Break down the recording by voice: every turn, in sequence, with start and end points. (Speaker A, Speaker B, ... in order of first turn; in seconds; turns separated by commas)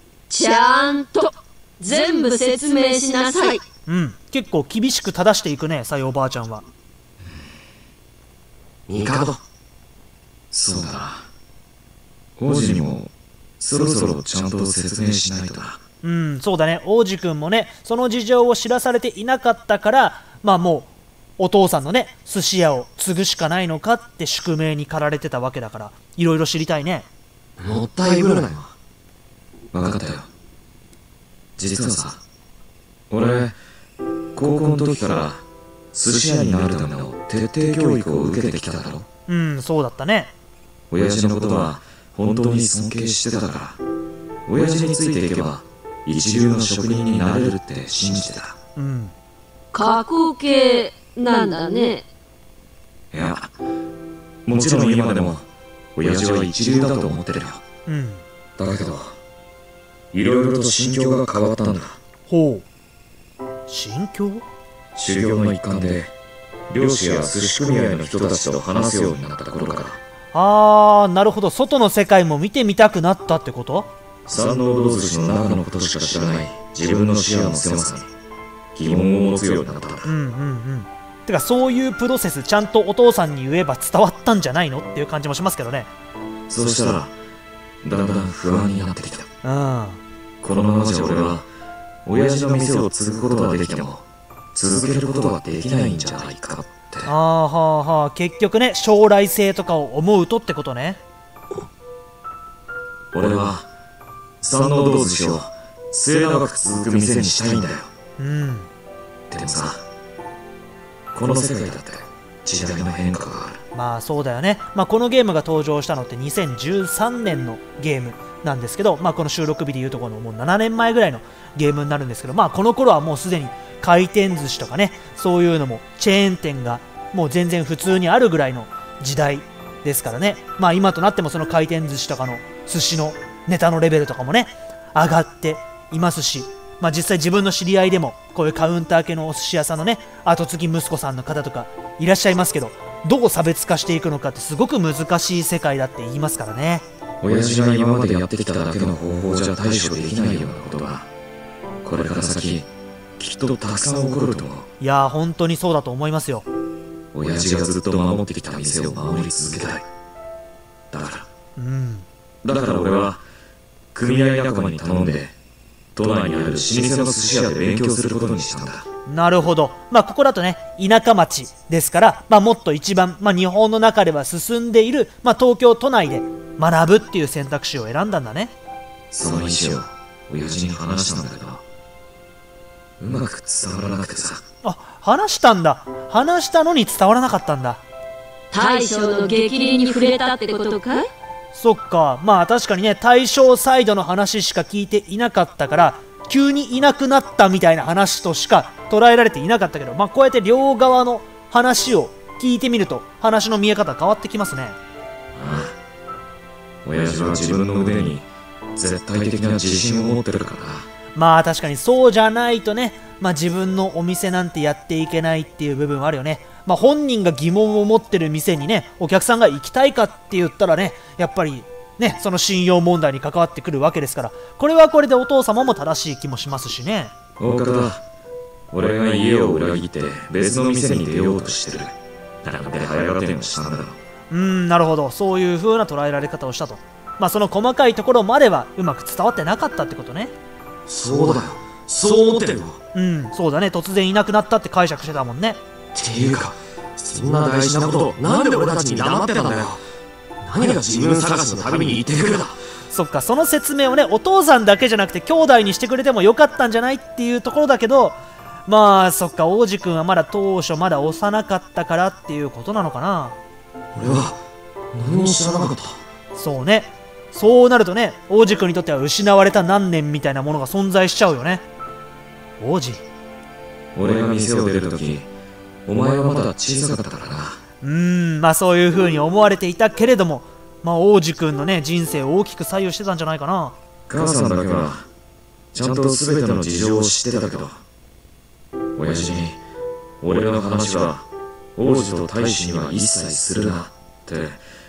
Speaker A: 0.3-3.6, Speaker B: 3.9-6.6, Speaker C: 8.9-9.4, Speaker D: 10.5-11.3, Speaker D: 12.4-15.8, Speaker B: 16.0-27.1, Speaker C: 27.6-28.7, Speaker D: 29.7-30.3, Speaker D: 31.6-32.2, Speaker D: 33.1-33.6, Speaker D: 34.3-39.1, Speaker B: 39.3-40.3, Speaker D: 40.9-43.8, Speaker D: 44.5-48.6, Speaker B: 48.8-49.1, Speaker A: 49.7-52.0, Speaker D: 53.1-53.5, Speaker D: 54.5-57.6, Speaker B: 57.9-58.2, Speaker D: 58.6-59.2, Speaker D: 60.1-62.0, Speaker B: 62.3-62.6, Speaker B: 63.7-64.5, Speaker D: 65.0-66.1, Speaker D: 66.7-70.0, Speaker B: 70.3-73.9, Speaker D: 74.3-78.1, Speaker D: 78.7-80.1, Speaker B: 80.0-85.9, Speaker D: 86.5-87.1, Speaker D: 87.8-89.3, Speaker B: 89.4-90.0, Speaker D: 90.4-91.5, Speaker D: 92.0-97.1, Speaker B: 97.0-101.0, Speaker D: 103.1-103.7, Speaker D: 104.4-107.9, Speaker B: 108.2-108.7, Speaker D: 109.3-109.8, Speaker D: 111.1-113.6, Speaker B: 113.7-146.8, Speaker D: 147.2-151.1, Speaker D: 151.8-154.7, Speaker B: 154.8-156.4, Speaker D: 157.1-159.8, Speaker D: 160.9-161.3, Speaker B: 161.6-162.1, Speaker D: 162.4-163.2, Speaker D: 163.9-165.3, Speaker D: 165.9-168.9, Speaker B: 169.1-178.5, Speaker D: 179.1-181.6, Speaker D: 183.0-184.4, Speaker B: 184.6-187.8, Speaker A: 188.5-191.1, Speaker B: 191.5-204.8, Speaker D: 205.3-205.8, Speaker D: 206.8-210.9, Speaker B: 211.1-227.1, Speaker D: 227.4-228.0, Speaker D: 228.7-234.0, Speaker B: 234.3-240.3, Speaker C: 240.8-242.8, Speaker B: 242.9-245.6, Speaker C: 245.9-249.8, Speaker C: 250.5-252.6, Speaker B: 252.9-263.4, Speaker C: 263.9-264.4, Speaker C: 264.9-266.0, Speaker B: 266.3-271.6, Speaker B: 272.6-273.0, Speaker D: 273.9-275.3, Speaker D: 275.9-277.6, Speaker B: 277.8-283.8, Speaker D: 284.1-285.1, Speaker D: 285.7-287.8, Speaker D: 288.9-289.6, Speaker D: 290.2-291.2, Speaker D: 291.8-294.6